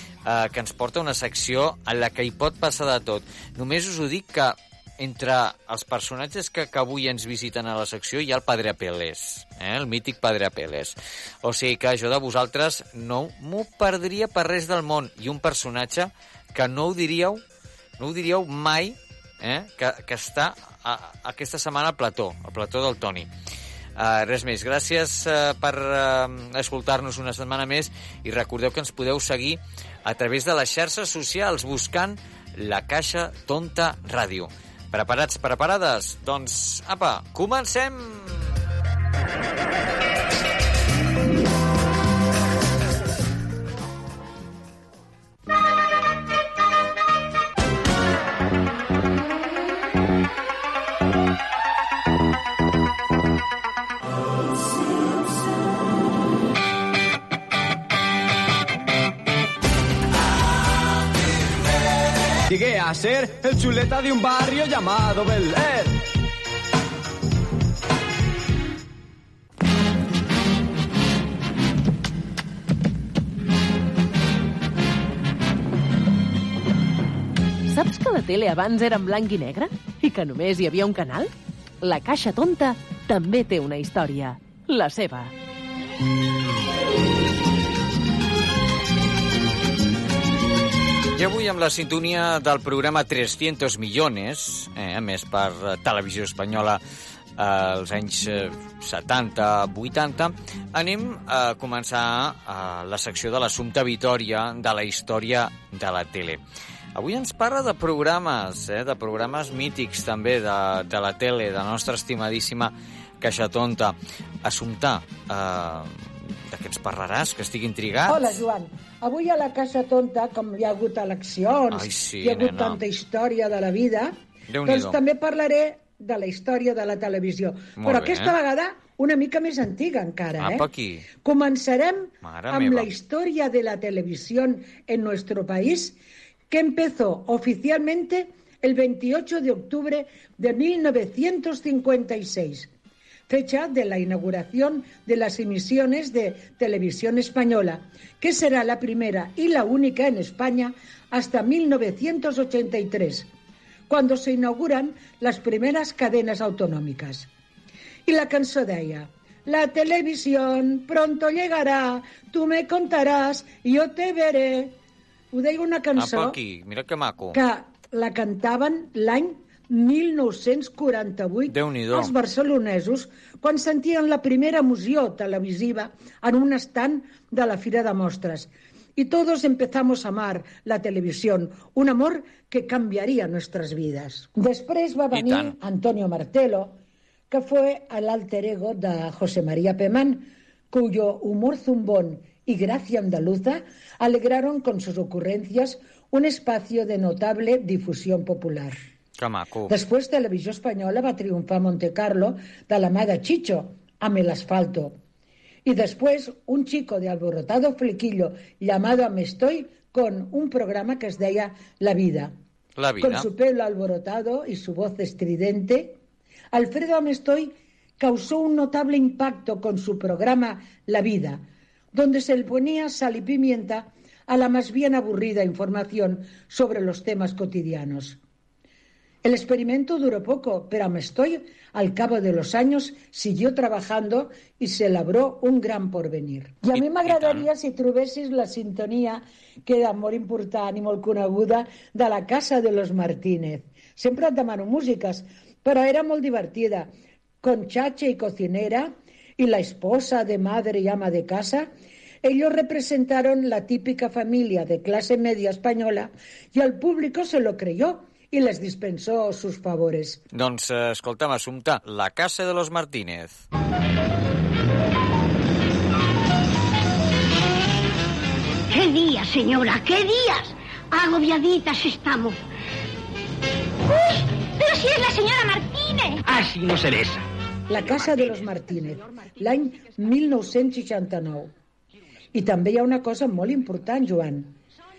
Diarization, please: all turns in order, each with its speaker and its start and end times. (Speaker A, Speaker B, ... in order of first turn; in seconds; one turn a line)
Speaker A: 0.2-17.4
Speaker A: 18.0-23.3
Speaker A: 23.9-38.4
Speaker B: 62.5-66.0
Speaker C: 77.7-85.3
Speaker A: 91.1-96.8
Speaker A: 97.4-106.4
Speaker A: 106.9-118.4
Speaker D: 118.0-130.6
Speaker A: 121.7-122.8
Speaker A: 124.5-125.0
Speaker A: 127.8-128.3
Speaker A: 130.4-131.1
Speaker D: 131.2-136.0
Speaker A: 132.2-132.9
Speaker D: 136.5-142.7
Speaker D: 143.3-153.3
Speaker D: 153.9-157.3
Speaker D: 158.1-164.7
Speaker D: 165.3-166.4
Speaker A: 165.9-167.4
Speaker D: 167.3-186.8
Speaker A: 171.5-172.1
Speaker A: 185.1-185.5
Speaker D: 187.3-198.8
Speaker A: 199.2-199.7
Speaker D: 199.7-204.9
Speaker D: 205.6-212.3
Speaker A: 212.8-213.3
Speaker D: 213.0-216.0
Speaker D: 216.5-228.2
Speaker D: 229.2-251.7
Speaker A: 237.0-237.4
Speaker D: 252.2-260.2
Speaker A: 260.3-263.4
Speaker E: 268.7-272.4
Speaker E: 273.9-276.2
Speaker D: 277.7-281.5
Speaker D: 282.3-284.6